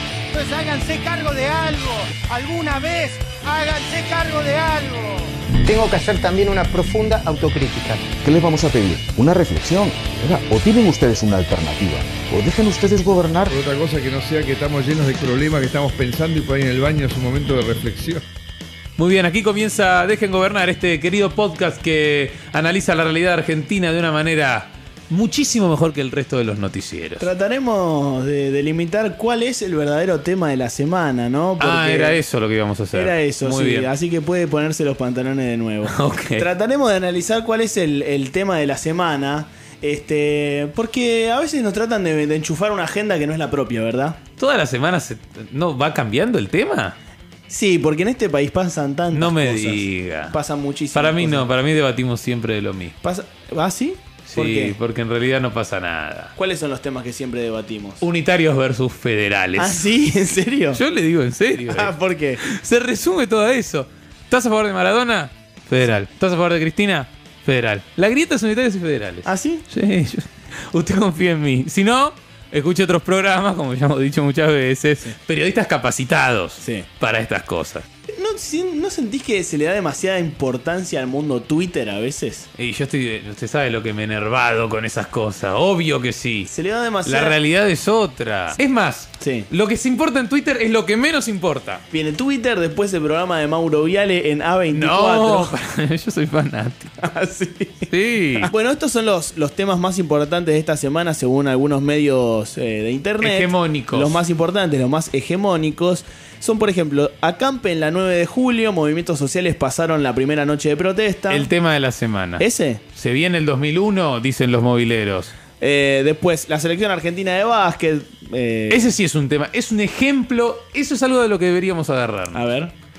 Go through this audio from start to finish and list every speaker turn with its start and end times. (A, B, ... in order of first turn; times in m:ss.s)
0:00.3-0:05.3 A
0:05.6-0:08.1 B
0:08.2-0:13.6 C
0:13.5-0:18.2 D
0:19.0-0:27.3 E
0:27.2-0:32.2 F
0:31.6-0:33.9 E
0:32.9-0:44.2 F
0:35.8-0:36.5 E
0:44.4-0:47.0 E
0:47.5-0:51.5 F
0:49.1-0:50.4 E
0:50.9-0:53.0 E
0:53.0-0:54.8 F
0:54.2-0:56.3 E
0:56.4-0:58.0 F
0:58.0-0:59.8 E
0:59.6-1:00.8 F
1:00.7-1:17.8 E
1:01.7-1:02.4 F
1:09.2-1:09.6 F
1:16.6-1:16.9 F
1:18.1-1:22.5 F
1:22.6-1:26.5 E
1:26.4-1:27.4 F
1:27.0-1:31.8 E
1:29.2-1:29.5 F
1:31.9-1:35.6 F
1:34.7-1:36.9 E
1:37.0-1:37.9 F
1:37.9-1:38.5 E
1:38.4-1:51.5 F
1:43.2-1:44.2 E
1:51.3-1:55.3 E
1:52.4-1:52.8 F
1:55.6-1:58.9 F
1:58.7-2:02.4 E
2:02.3-2:02.7 F